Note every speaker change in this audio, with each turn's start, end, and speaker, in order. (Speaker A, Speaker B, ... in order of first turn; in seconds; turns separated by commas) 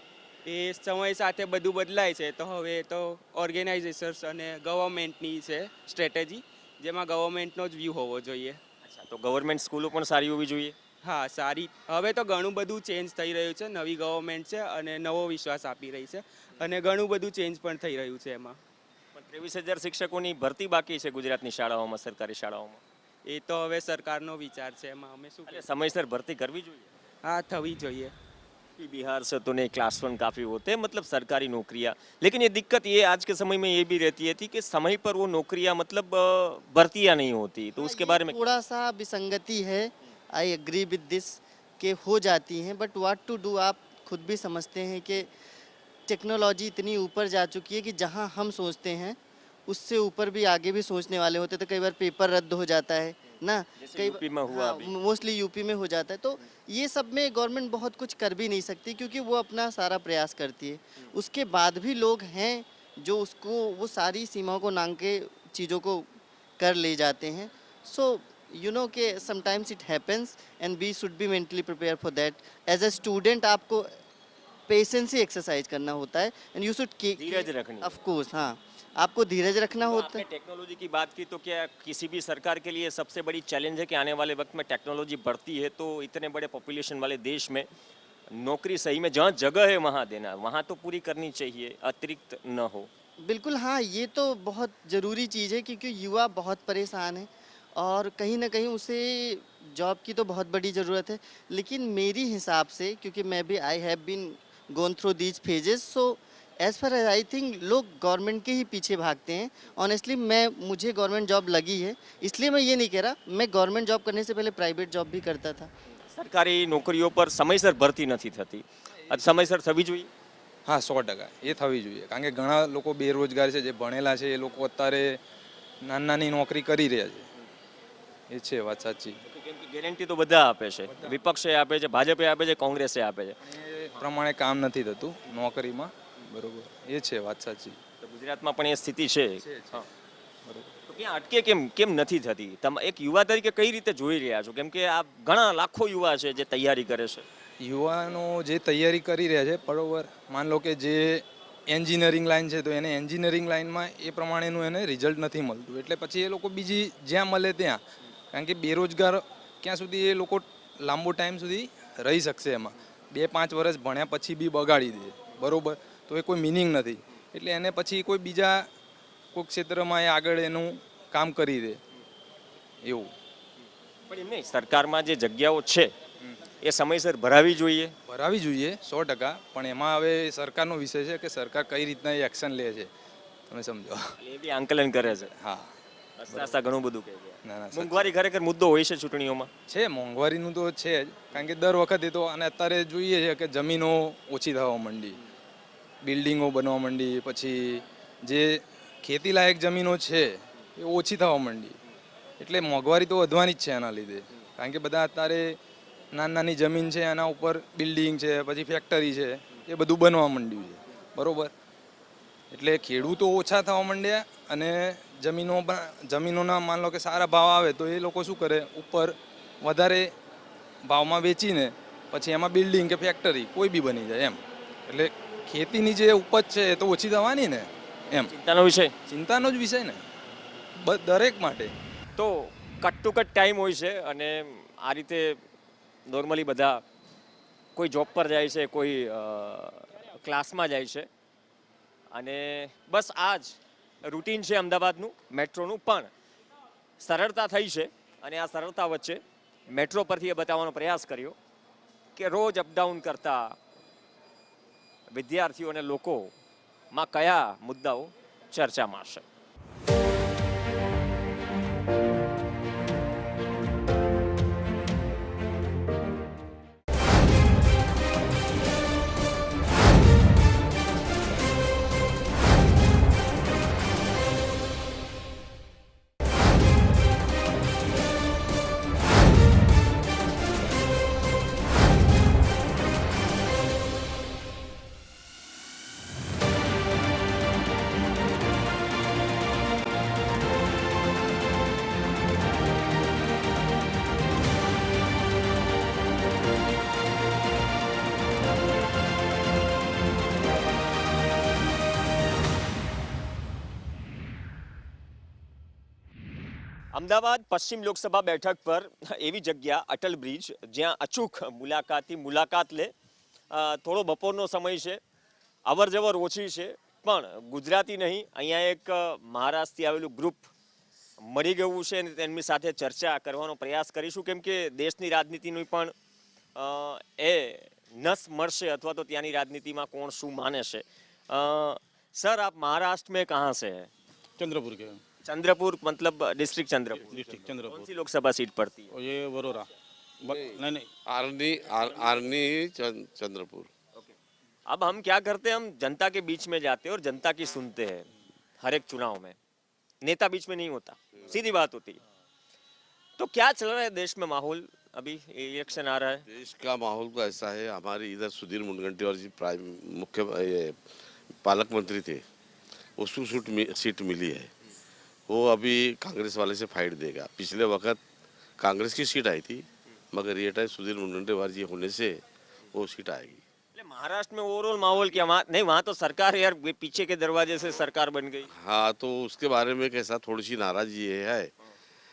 Speaker A: 0.5-8.6, Speaker B: 8.8-10.8, Speaker A: 11.1-18.6, Speaker B: 19.1-22.8, Speaker A: 23.3-25.6, Speaker B: 25.5-26.9, Speaker A: 27.3-28.1, Speaker B: 28.8-38.5, Speaker C: 37.8-45.3, Speaker C: 46.1-73.9, Speaker B: 53.8-54.9, Speaker C: 74.7-80.2, Speaker B: 77.2-77.9, Speaker B: 79.8-87.7, Speaker B: 88.3-92.9, Speaker C: 93.2-115.7, Speaker B: 116.1-120.1, Speaker D: 120.7-125.2, Speaker D: 125.8-127.3, Speaker D: 128.3-129.2, Speaker B: 129.2-133.4, Speaker D: 133.4-137.8, Speaker B: 138.0-139.9, Speaker D: 139.4-139.8, Speaker B: 140.9-147.3, Speaker D: 147.6-157.8, Speaker D: 158.3-168.7, Speaker D: 169.3-171.8, Speaker D: 172.8-173.1, Speaker B: 174.1-175.9, Speaker B: 176.6-177.9, Speaker D: 178.1-182.9, Speaker D: 183.5-184.2, Speaker B: 184.2-185.3, Speaker D: 185.4-185.7, Speaker B: 186.2-189.5, Speaker D: 187.5-188.1, Speaker D: 189.7-195.2, Speaker D: 196.0-201.8, Speaker D: 202.4-205.6, Speaker D: 206.2-211.5, Speaker D: 212.5-220.1, Speaker D: 220.8-228.3, Speaker B: 228.3-228.9, Speaker D: 229.1-230.0, Speaker D: 230.8-231.7, Speaker B: 232.2-235.4, Speaker B: 236.1-236.8, Speaker B: 237.8-241.1, Speaker B: 242.1-246.1, Speaker B: 247.0-251.4, Speaker B: 252.2-253.6, Speaker B: 255.1-256.3, Speaker B: 256.9-259.2, Speaker B: 306.9-312.9, Speaker B: 313.5-315.0, Speaker B: 315.7-320.5, Speaker B: 321.2-325.9, Speaker B: 326.6-333.9, Speaker E: 334.4-335.0, Speaker B: 335.2-338.9, Speaker E: 337.0-337.9, Speaker E: 338.9-339.7, Speaker E: 340.2-340.9, Speaker F: 341.1-343.7, Speaker B: 344.7-348.1, Speaker B: 348.6-349.4, Speaker B: 350.0-352.0, Speaker B: 353.2-356.3, Speaker F: 356.3-360.8, Speaker F: 361.4-362.2, Speaker F: 363.0-364.5, Speaker F: 365.3-368.0, Speaker F: 368.6-372.2, Speaker F: 372.7-373.4, Speaker B: 373.8-378.5, Speaker F: 378.6-381.5